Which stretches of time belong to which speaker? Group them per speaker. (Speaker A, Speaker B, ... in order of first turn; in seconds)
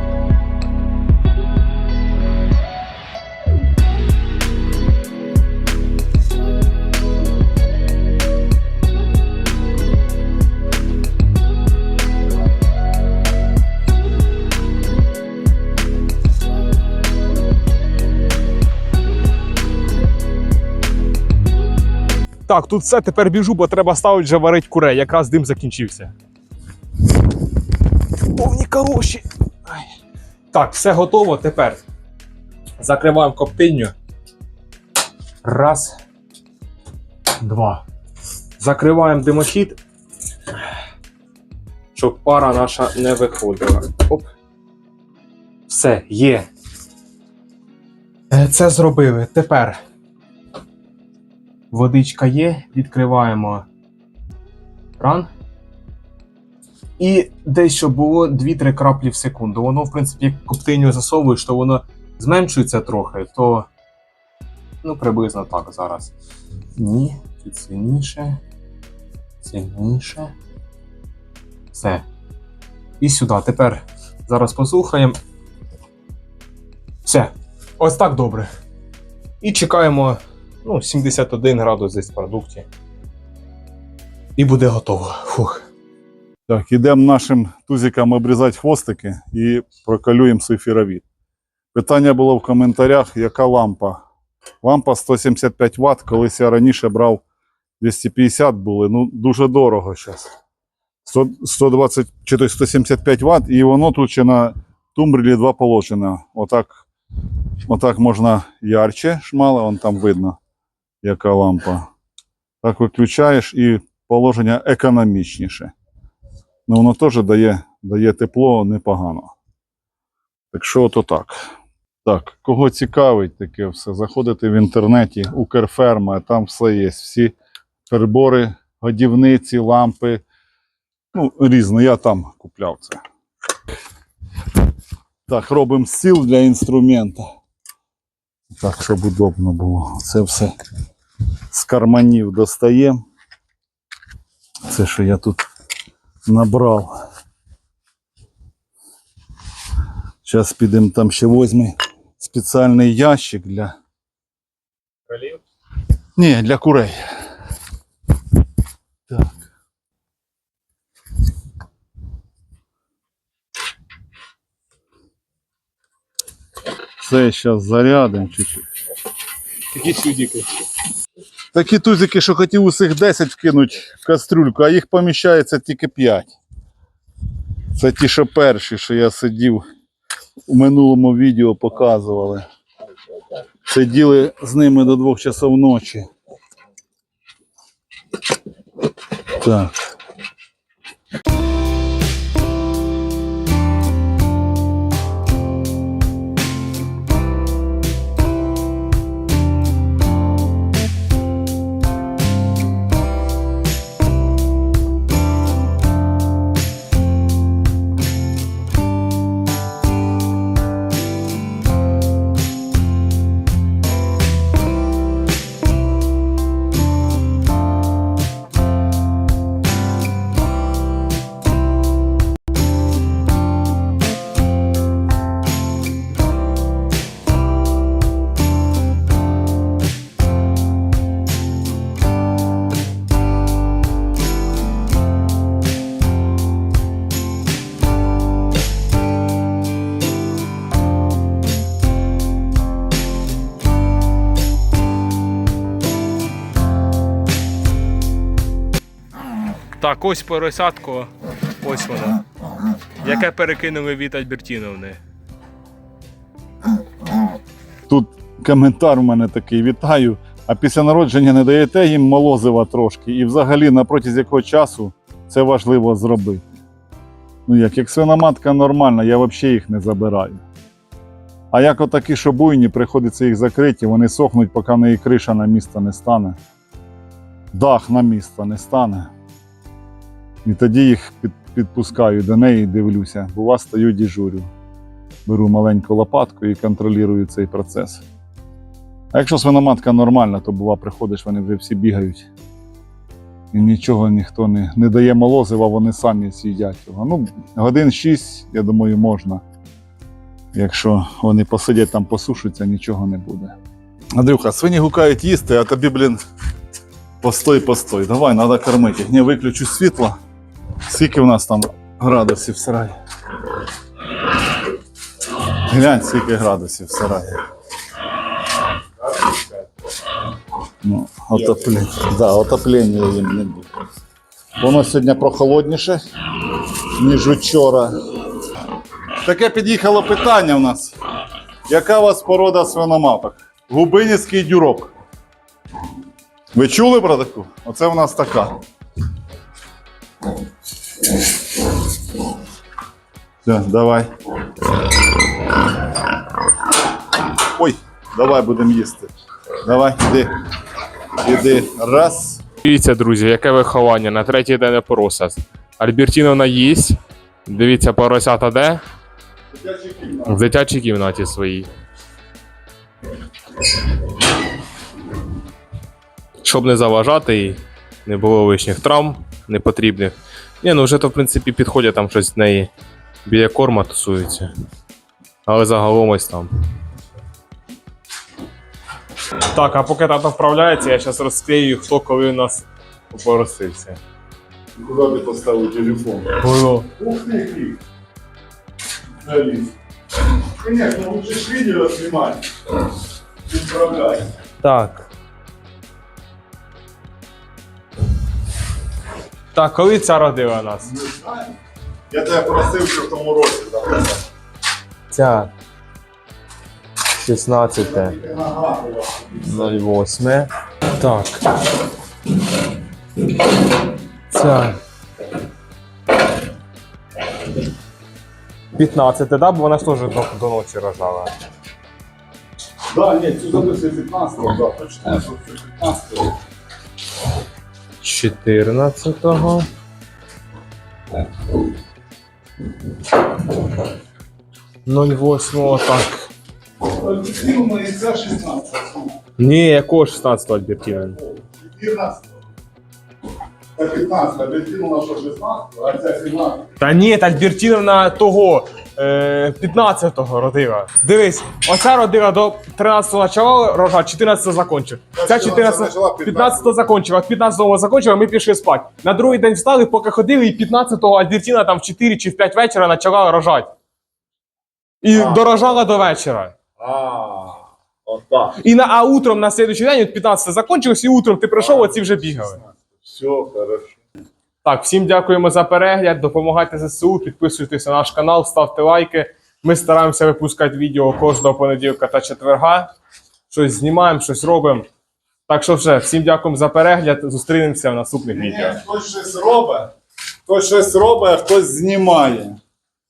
Speaker A: 22.5-26.1, 28.3-29.9, 30.5-31.8, 32.8-33.9, 35.4-36.0, 37.4-37.8, 38.6-39.8, 41.9-44.3, 45.7-46.5, 48.3-49.8, 51.7-53.6, 55.0-55.3, 57.0-63.7, 64.8-66.1, 66.8-68.4, 69.4-70.3, 71.7-72.0, 73.0-75.2, 77.0-78.5, 79.4-82.7, 84.4-85.7, 155.1-155.4, 169.7-170.5, 249.8-252.2, 253.0-255.0, 352.6-358.8, 360.2-361.7, 366.4-372.7, 373.2-374.5, 375.4-376.5, 379.4-384.0, 386.4-386.9, 394.6-395.1, 399.5-400.9, 405.1-405.5, 407.1-408.2, 409.4-411.6, 414.3-414.8, 418.7-421.3, 428.0-429.7, 434.9-436.3, 439.4-441.2, 446.8-463.7, 465.0-466.6, 468.5-472.6, 474.6-482.9, 483.5-484.9, 485.5-488.8
Speaker B: 86.5-91.0, 91.7-94.0, 94.6-97.2, 97.8-100.3, 101.0-106.8, 107.7-110.4, 111.0-111.9, 112.6-115.7, 116.7-119.3, 120.5-121.4, 122.0-127.3, 127.9-130.2, 131.1-133.0, 135.3-137.2, 138.5-140.5, 141.5-143.0, 144.7-145.4, 146.2-146.9, 150.2-153.7, 156.2-157.0, 159.1-159.3, 167.0-168.7, 171.5-176.3, 177.7-179.6, 180.5-182.4, 183.7-186.1, 189.3-189.8, 257.9-266.4, 267.5-270.4, 271.5-276.4, 277.5-279.1, 280.4-284.5, 285.2-288.0, 289.1-292.3, 293.5-299.4, 300.5-303.5, 304.1-306.2, 307.2-310.2, 310.8-312.9, 315.5-317.4, 320.8-323.8, 324.6-328.2, 329.2-330.9, 331.7-334.9, 336.5-338.6, 343.4-344.1, 347.3-349.1, 349.6-350.4, 351.2-352.4, 359.5-360.4, 384.8-387.8, 389.2-389.7, 390.3-392.5, 393.5-394.3, 400.9-401.5, 402.1-404.2, 407.8-409.5, 422.9-426.4, 436.8-439.1, 441.1-442.3, 443.8-446.7, 455.1-456.8, 465.1-465.8, 466.8-468.6, 471.6-474.0, 488.3-489.9, 490.4-492.6